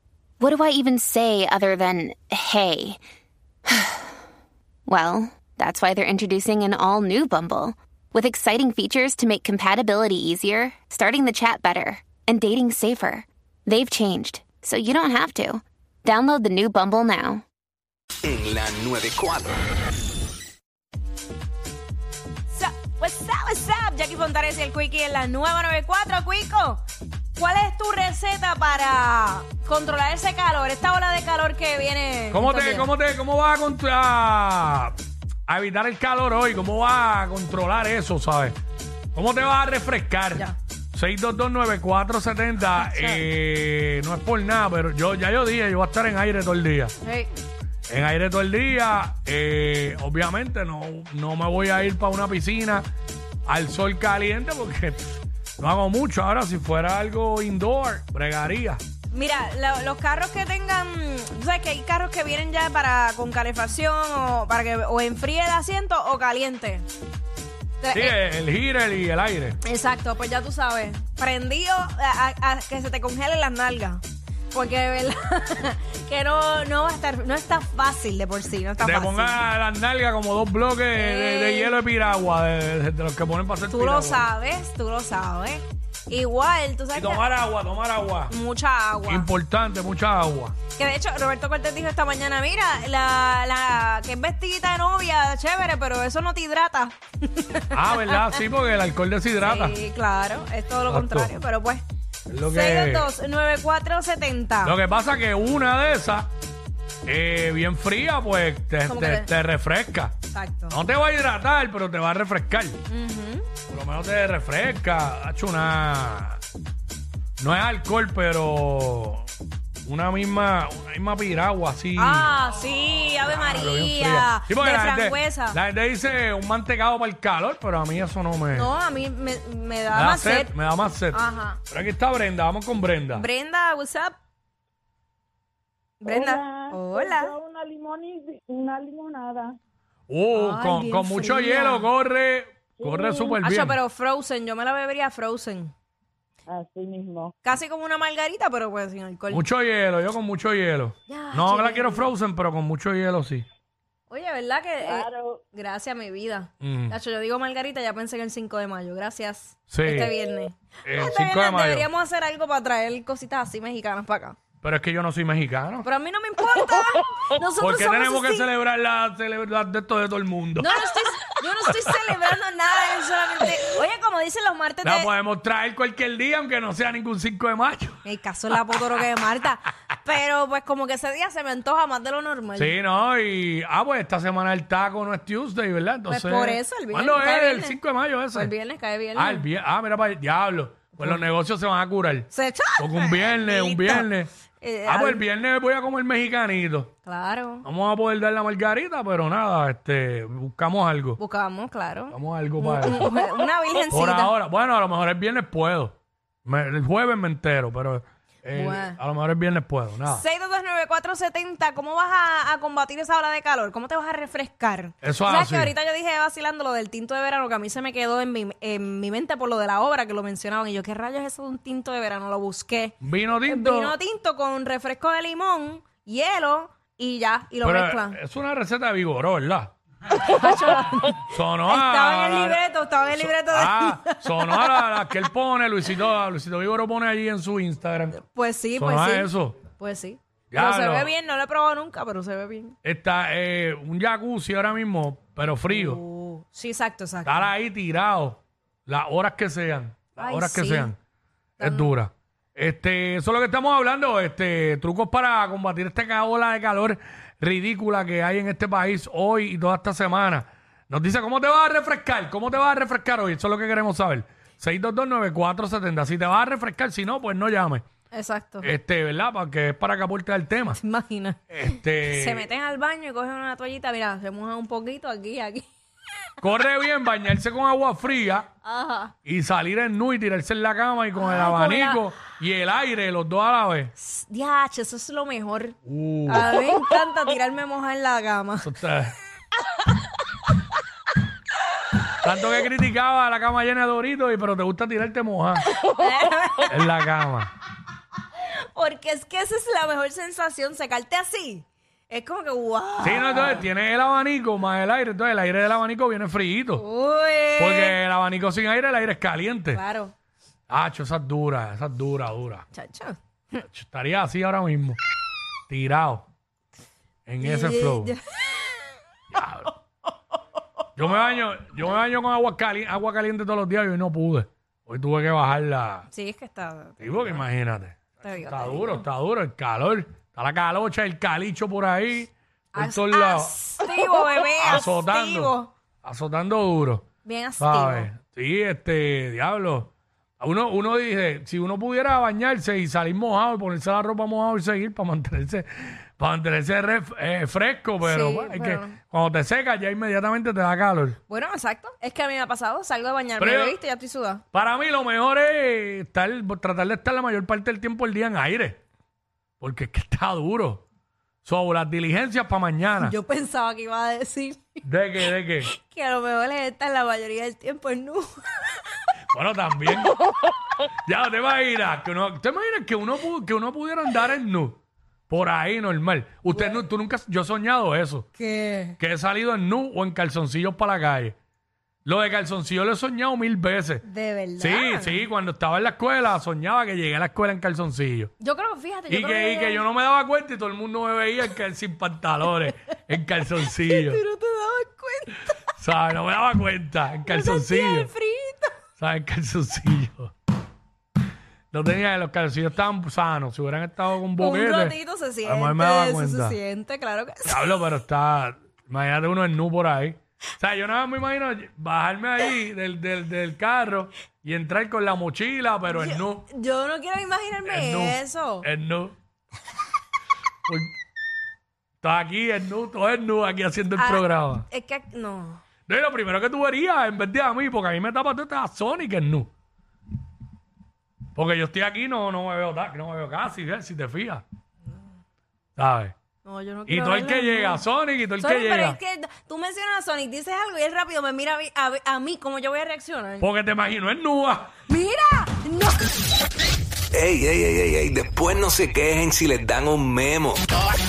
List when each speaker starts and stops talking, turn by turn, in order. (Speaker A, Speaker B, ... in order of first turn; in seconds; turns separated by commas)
Speaker A: 0.4-3.0, Speaker A: 3.7-4.1, Speaker A: 4.9-17.4, Speaker B: 18.2-19.6, Speaker C: 22.5-26.8, Speaker C: 27.3-32.9, Speaker D: 32.3-34.9, Speaker D: 35.5-38.5, Speaker D: 39.1-46.9, Speaker C: 42.8-43.2, Speaker C: 47.0-47.3, Speaker D: 47.9-52.9, Speaker D: 53.5-58.8, Speaker C: 59.1-66.8, Speaker C: 67.8-68.2, Speaker D: 67.9-69.6, Speaker C: 69.6-79.4, Speaker D: 78.8-84.2, Speaker C: 80.9-81.8, Speaker C: 83.7-87.2, Speaker D: 86.9-88.3, Speaker C: 88.3-89.3, Speaker D: 89.0-90.5, Speaker C: 90.8-98.4, Speaker D: 97.7-99.8, Speaker C: 99.4-101.8, Speaker D: 100.9-101.3, Speaker D: 102.3-103.1, Speaker C: 102.4-104.8, Speaker D: 104.6-106.3, Speaker D: 107.0-110.1, Speaker C: 108.8-109.3, Speaker C: 110.3-110.8, Speaker D: 110.7-112.8, Speaker C: 112.9-113.5, Speaker D: 113.7-116.4, Speaker D: 117.4-119.3, Speaker D: 119.8-122.3, Speaker C: 122.0-125.6, Speaker D: 123.3-128.7, Speaker C: 128.5-130.6, Speaker D: 129.9-133.3, Speaker C: 131.1-131.6, Speaker C: 133.1-134.1, Speaker C: 136.0-137.3, Speaker E: 136.0-139.6, Speaker D: 140.1-143.8, Speaker C: 140.3-141.9, Speaker E: 142.8-143.3, Speaker C: 143.3-145.7, Speaker E: 146.5-147.3, Speaker C: 147.4-149.4, Speaker D: 149.3-153.4, Speaker C: 151.1-152.1, Speaker C: 154.1-164.4, Speaker E: 154.8-155.4, Speaker D: 156.6-157.0, Speaker D: 159.7-160.1, Speaker D: 160.8-161.9, Speaker D: 164.6-165.9, Speaker C: 165.8-168.5, Speaker D: 167.6-170.8, Speaker C: 170.6-175.1, Speaker D: 171.7-172.0, Speaker D: 174.8-178.0, Speaker C: 178.0-182.8, Speaker D: 182.5-188.5, Speaker C: 186.1-187.8, Speaker C: 188.3-189.5, Speaker D: 189.1-194.3, Speaker C: 190.9-191.2, Speaker C: 192.3-195.2, Speaker D: 194.8-196.9, Speaker C: 197.0-197.6, Speaker D: 197.6-201.2, Speaker C: 201.2-204.3, Speaker D: 202.1-203.1, Speaker D: 203.9-210.2, Speaker C: 208.5-209.0, Speaker C: 210.0-228.2, Speaker D: 215.0-215.7, Speaker D: 223.0-223.9, Speaker D: 227.6-229.7, Speaker C: 230.1-234.9, Speaker D: 231.3-232.6, Speaker D: 233.1-238.2, Speaker C: 238.1-242.8, Speaker D: 238.8-239.6, Speaker D: 240.5-241.1, Speaker D: 242.8-246.0, Speaker C: 245.7-247.5, Speaker D: 247.2-250.9, Speaker C: 250.2-250.9, Speaker D: 251.6-267.8, Speaker C: 251.6-251.9, Speaker C: 268.1-268.7, Speaker D: 268.6-270.8, Speaker C: 270.7-275.7, Speaker D: 271.5-272.5, Speaker D: 276.4-278.5, Speaker C: 278.6-279.1, Speaker D: 279.2-283.9, Speaker C: 281.1-282.0, Speaker C: 284.0-288.7, Speaker D: 285.8-286.5, Speaker D: 288.6-289.1, Speaker D: 292.1-295.7, Speaker C: 295.7-296.9, Speaker D: 296.7-297.5, Speaker C: 298.4-303.6, Speaker D: 303.0-306.8, Speaker C: 306.8-308.0, Speaker D: 307.6-309.8, Speaker C: 309.7-310.1, Speaker D: 310.7-312.6, Speaker C: 312.7-313.2, Speaker D: 313.6-315.0, Speaker D: 315.7-316.2, Speaker D: 317.3-318.1, Speaker C: 317.4-318.7, Speaker D: 319.3-319.7, Speaker D: 320.9-326.1, Speaker C: 326.1-327.3, Speaker D: 327.0-333.6, Speaker C: 328.2-329.0, Speaker C: 332.7-335.7, Speaker D: 334.6-337.1, Speaker C: 337.2-338.1, Speaker D: 337.6-351.2, Speaker C: 348.0-349.0, Speaker C: 351.3-354.4, Speaker D: 353.4-353.8, Speaker D: 354.5-358.8, Speaker D: 359.6-360.8, Speaker D: 361.4-363.1, Speaker C: 363.0-364.8, Speaker D: 364.8-365.7, Speaker C: 365.6-368.8, Speaker D: 369.3-370.2, Speaker D: 371.0-374.8, Speaker D: 375.3-378.3, Speaker C: 378.3-379.0, Speaker D: 379.0-381.3, Speaker D: 382.0-384.0, Speaker C: 384.0-385.2, Speaker D: 384.6-388.3, Speaker C: 388.4-389.8, Speaker D: 389.1-394.2, Speaker C: 393.8-395.6, Speaker D: 395.8-398.1, Speaker C: 397.2-398.8, Speaker D: 399.0-400.3, Speaker D: 401.7-406.6, Speaker C: 404.4-407.8, Speaker D: 407.4-416.5, Speaker C: 415.9-418.7, Speaker D: 417.6-419.1, Speaker D: 420.6-420.9, Speaker D: 422.0-424.6, Speaker C: 423.9-425.6, Speaker D: 425.9-429.5, Speaker D: 431.3-434.4, Speaker D: 435.8-436.1, Speaker C: 436.4-437.8, Speaker D: 436.9-439.0, Speaker C: 438.4-443.5, Speaker D: 443.4-444.7, Speaker C: 444.9-446.1, Speaker B: 447.1-450.7